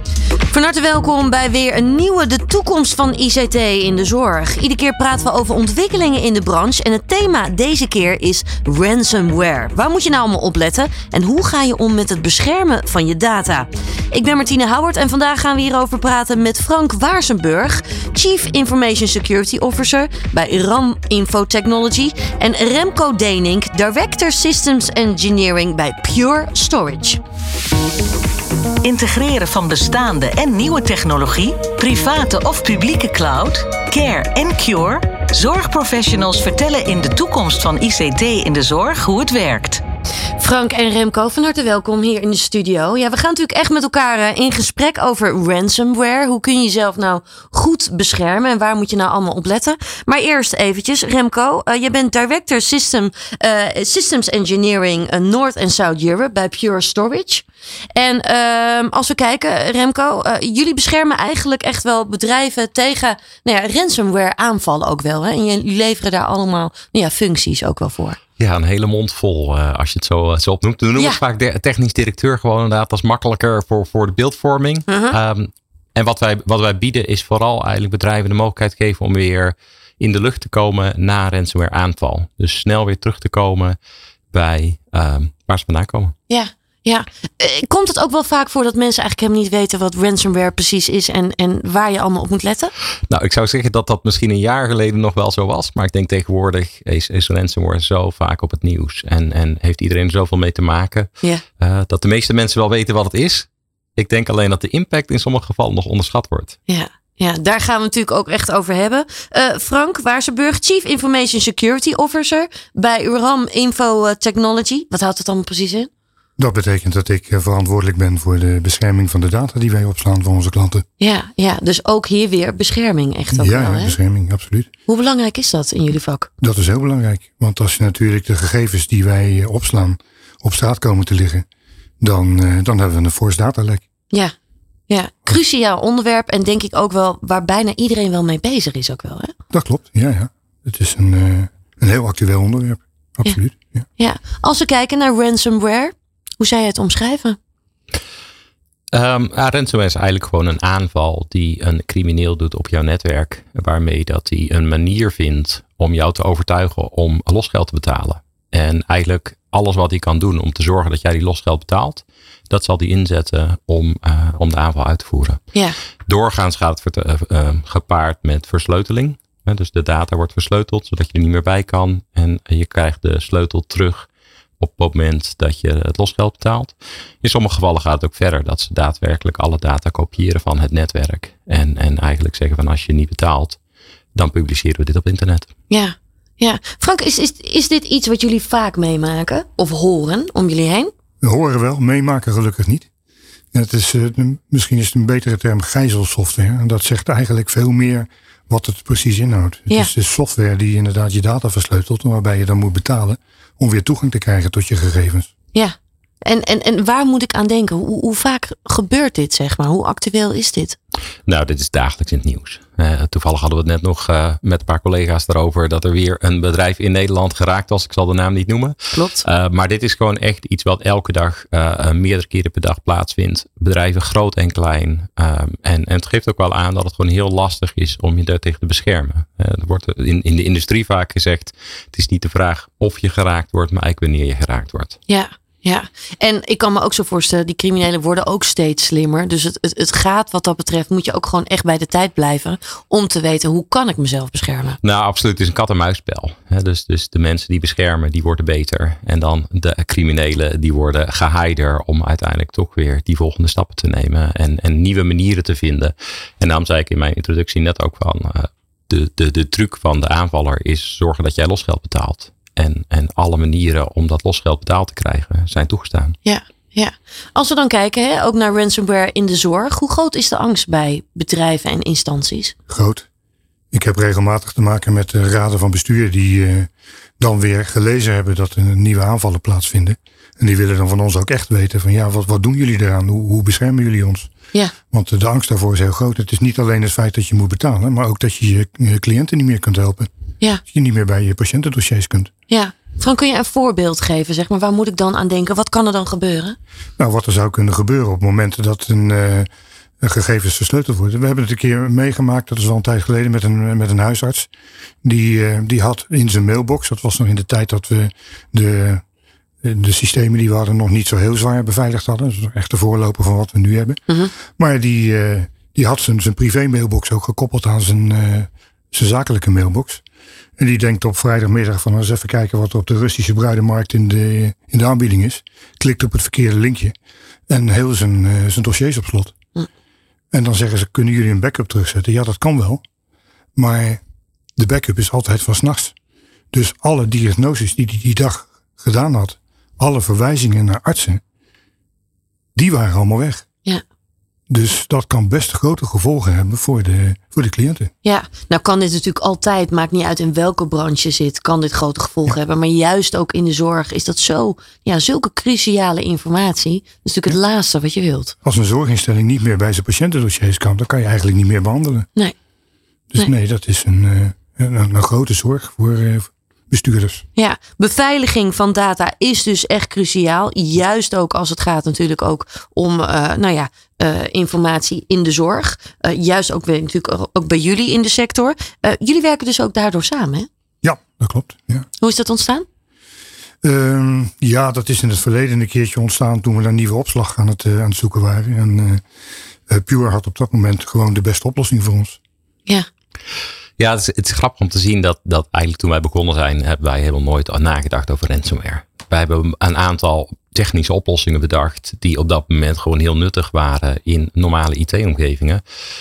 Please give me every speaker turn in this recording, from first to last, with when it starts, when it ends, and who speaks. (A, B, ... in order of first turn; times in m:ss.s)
0:00.5-0:27.2 A
0:28.8-0:39.8 B
0:40.4-1:08.2 A
1:08.4-1:23.8 C
1:14.9-1:15.2 A
1:24.3-1:26.1 C
1:26.3-1:32.7 A
1:33.1-1:46.6 C
1:46.7-1:55.9 A
1:56.4-2:00.8 D
2:01.0-2:04.0 A
2:03.3-2:04.7 D
2:04.9-2:06.3 A
2:06.4-2:11.5 D
2:12.0-2:13.8 D
2:14.9-2:19.3 A
2:19.5-2:23.8 D
2:24.0-2:27.4 A
2:28.9-2:45.4 C
2:46.1-2:54.1 C
2:54.6-3:03.6 C
3:04.2-3:05.5 C
3:05.7-3:10.9 A
3:11.2-3:12.9 D
3:13.5-3:25.3 D
3:25.5-3:30.8 A
3:31.2-3:55.0 C
3:38.9-3:39.2 A
3:55.1-4:04.8 A
4:04.8-4:26.2 C
4:26.2-4:32.6 A
4:32.7-4:33.1 D
4:33.7-4:44.3 D
4:44.9-4:50.1 D
4:50.6-4:52.3 D
4:52.5-4:56.6 A
4:57.0-4:59.5 D
5:00.0-5:04.5 D
5:05.0-5:09.0 D
5:09.6-5:20.0 D
5:14.1-5:14.3 A
5:20.6-5:26.9 D
5:27.5-5:29.4 D
5:30.3-5:32.8 D
5:33.6-5:34.0 D
5:34.6-5:35.9 D
5:36.5-5:41.2 D
5:42.6-5:43.4 D
5:44.5-5:47.9 D
5:48.0-5:58.4 A
5:58.4-6:02.1 D
6:03.1-6:07.2 D
6:07.4-6:20.5 A
6:20.8-6:21.9 D
6:22.0-6:22.6 A
6:23.6-6:29.0 D
6:29.7-6:32.2 D
6:33.8-6:45.6 C